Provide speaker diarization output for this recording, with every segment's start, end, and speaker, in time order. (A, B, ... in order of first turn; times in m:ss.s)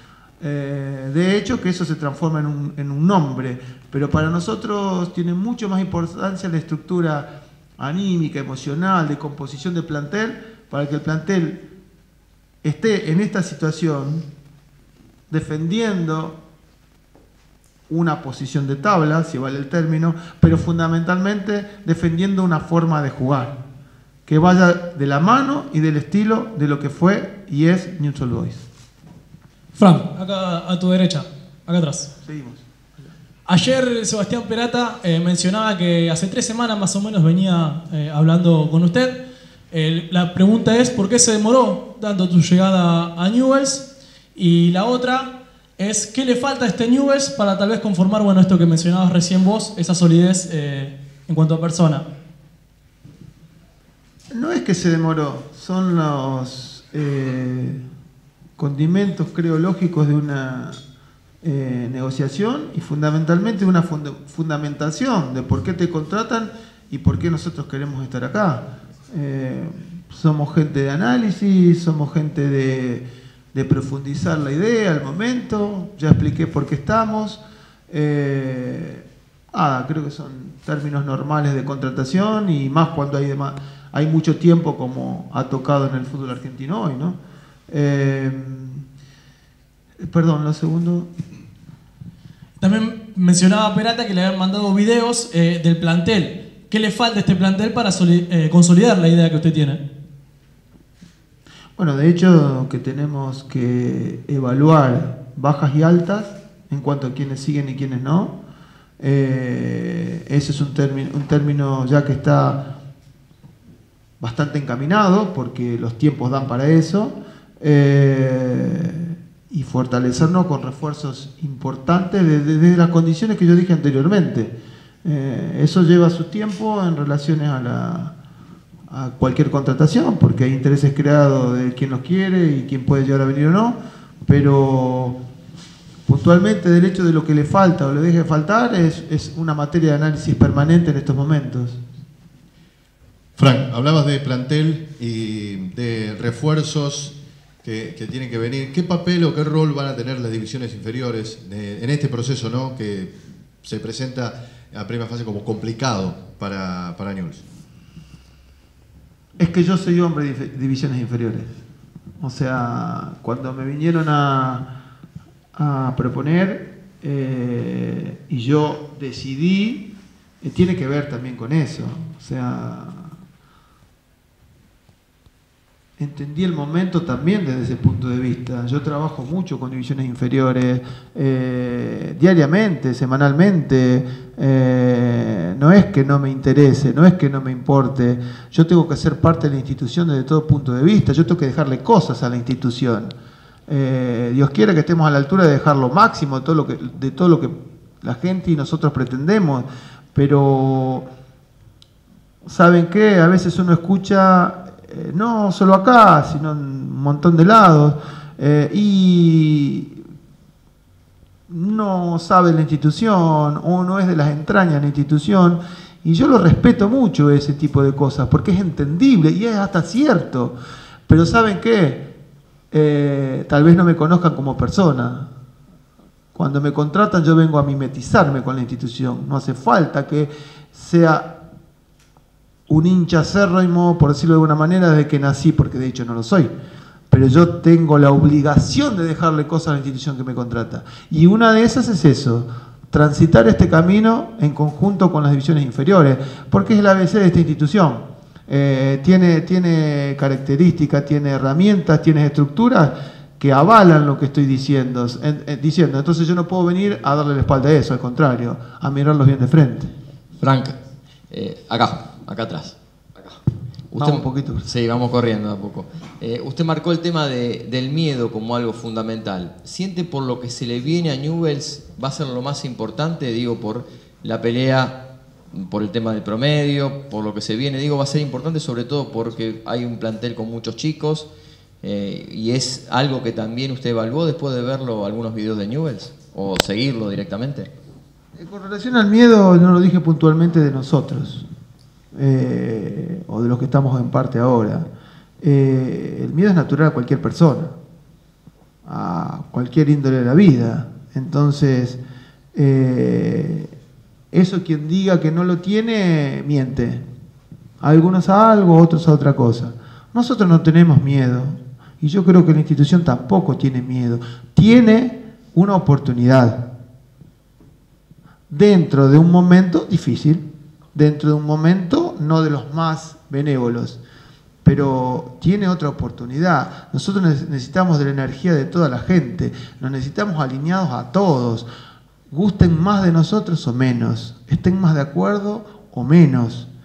0:00.4-0:07.3 A
0:07.8-0:11.6 A
0:12.6-0:14.3 A
0:15.3-0:16.4 A
0:17.9-0:23.6 A
0:24.3-0:28.6 A
0:29.7-0:32.1 B
0:32.2-0:33.1 A
0:33.5-0:52.0 B
0:54.3-0:57.8 A
0:58.6-1:00.8 A
1:01.4-1:27.2 A
1:27.7-1:28.8 A
1:30.0-1:31.1 A
1:32.6-1:39.8 B
1:41.8-1:48.4 A
1:49.0-1:52.7 A
1:54.2-2:08.2 A
2:08.9-2:15.2 A
2:16.1-2:21.8 A
2:23.4-2:37.5 C
2:39.4-2:41.6 A
2:42.2-2:44.7 A
2:45.6-2:49.9 A
2:50.4-2:53.2 A
2:56.0-3:13.1 A
3:13.7-3:21.1 A
3:22.4-3:30.0 A
3:31.5-3:40.6 A
3:41.1-3:42.0 A
3:42.7-3:45.3 A
3:46.3-3:51.3 A
3:52.7-3:56.5 A
3:57.1-4:19.9 A
4:20.4-4:20.8 D
4:21.3-4:23.4 D
4:23.9-4:41.3 D
4:24.0-4:24.7 A
4:41.8-4:47.7 D
4:48.4-4:51.5 A
4:52.2-4:54.9 A
4:55.4-4:57.7 A
4:58.9-5:02.0 A
5:02.5-5:03.7 A
5:04.3-5:07.0 A
5:07.8-5:16.6 A
5:18.5-5:20.4 A
5:20.9-5:24.0 A
5:24.6-5:31.7 A
5:32.3-5:36.7 A